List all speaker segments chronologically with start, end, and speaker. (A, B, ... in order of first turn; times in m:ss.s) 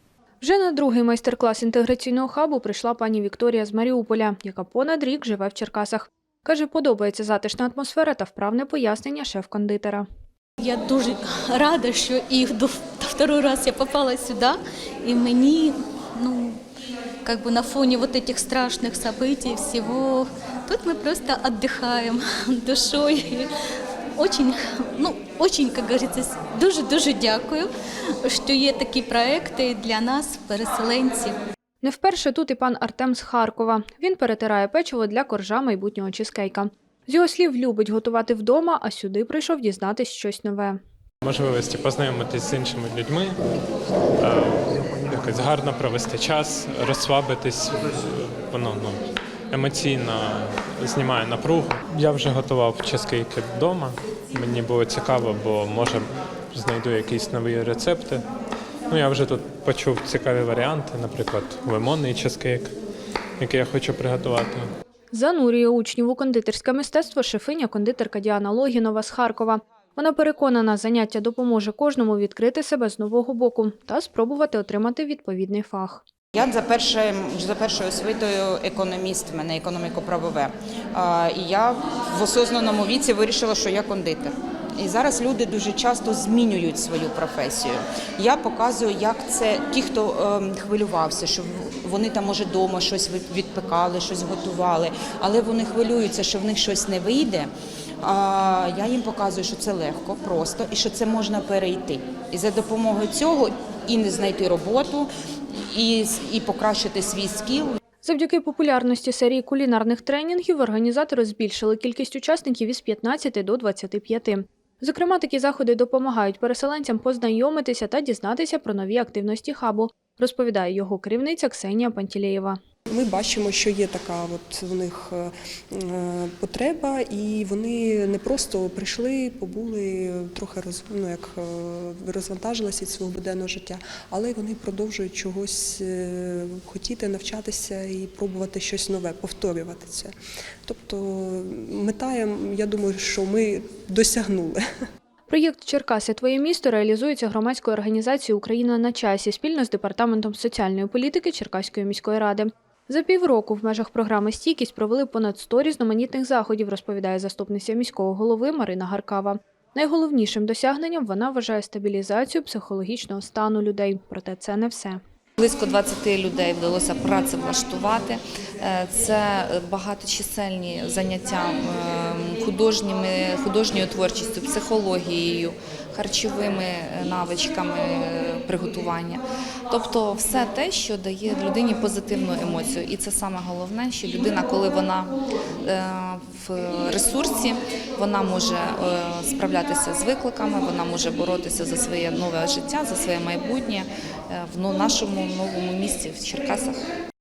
0:00.4-0:10.0 A
0:10.6-0:16.6 B
0:17.2-0:23.5 B
0:24.2-0:27.7 B
0:28.2-0:31.4 B
0:31.8-0:40.8 A
0:41.2-0:43.4 C
0:44.2-0:49.0 C
0:49.5-0:58.2 C
0:58.9-1:02.7 C
1:03.4-1:04.6 C
1:05.1-1:16.0 A
1:16.4-1:37.5 D
1:38.0-1:45.1 D
1:45.7-1:47.8 D
1:48.0-2:02.6 A
2:02.9-2:20.1 E
2:20.6-2:24.6 E
2:25.3-2:45.0 A
2:45.4-3:16.9 F